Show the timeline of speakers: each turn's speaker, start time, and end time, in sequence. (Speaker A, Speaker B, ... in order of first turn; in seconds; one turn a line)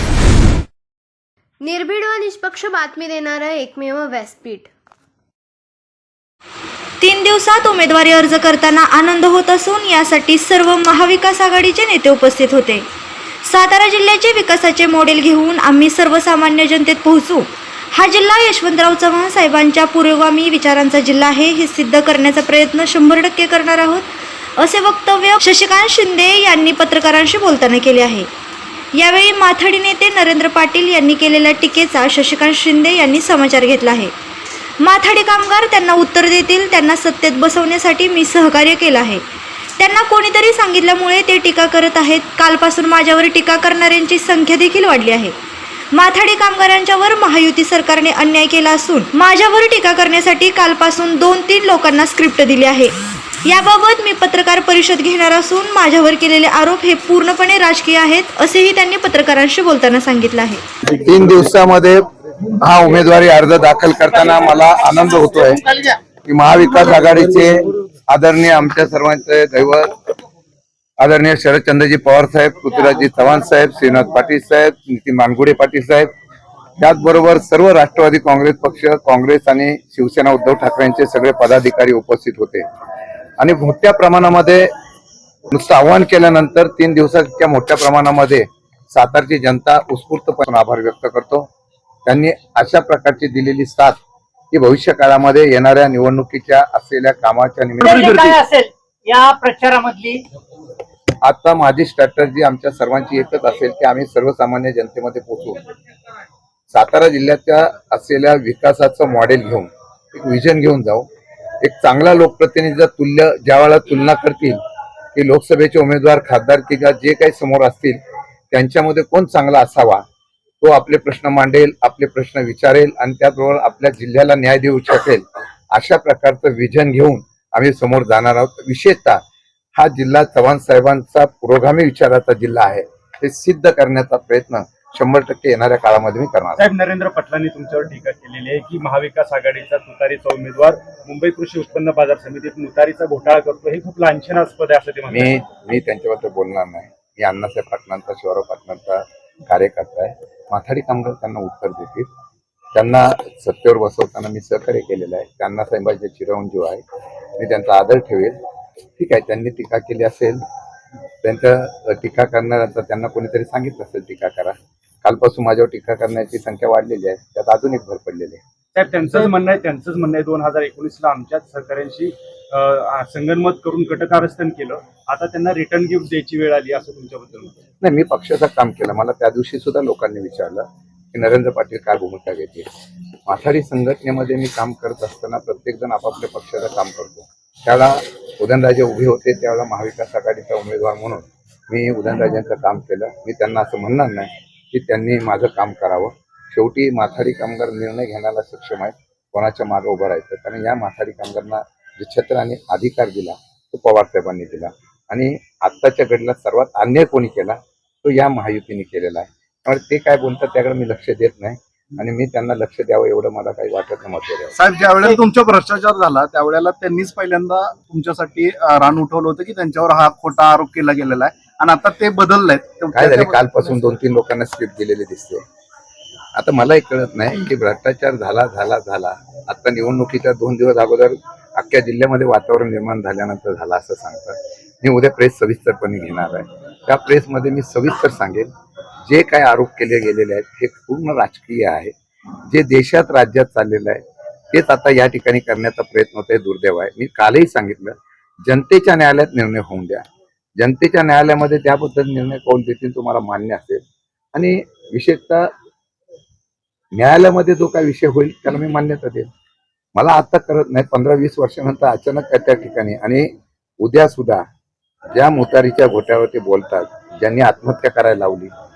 Speaker A: 1.6-4.7
Speaker B: 7.0-12.8
Speaker B: 13.4-28.3
Speaker B: 28.9-34.1
Speaker B: 34.8-39.2
Speaker B: 39.8-45.3
Speaker B: 45.9-60.6
Speaker C: 60.9-62.0
Speaker C: 62.6-69.9
Speaker C: 71.0-76.1
Speaker C: 76.8-82.6
Speaker C: 83.4-84.7
Speaker C: 85.5-91.5
Speaker C: 92.1-94.0
Speaker C: 94.5-98.3
Speaker D: 97.9-100.2
Speaker C: 101.2-105.6
Speaker C: 106.7-111.1
Speaker C: 111.6-114.6
Speaker C: 115.2-118.0
Speaker C: 118.5-120.0
Speaker C: 120.6-129.2
Speaker C: 129.8-136.6
Speaker E: 136.6-145.4
Speaker C: 145.1-152.1
Speaker C: 152.7-156.8
Speaker C: 157.4-158.3
Speaker C: 159.0-160.4
Speaker C: 161.2-168.4
Speaker E: 168.8-177.6
Speaker C: 177.8-182.7
Speaker C: 183.3-214.6
Speaker F: 214.6-223.4
Speaker C: 222.9-225.4
Speaker C: 226.4-238.5
Speaker C: 239.1-241.9
Speaker C: 242.5-250.0
Speaker C: 250.6-253.8
Speaker C: 254.3-255.5
Speaker C: 256.9-259.3
Speaker C: 259.9-263.3
Speaker C: 263.8-264.4
Speaker C: 265.1-268.5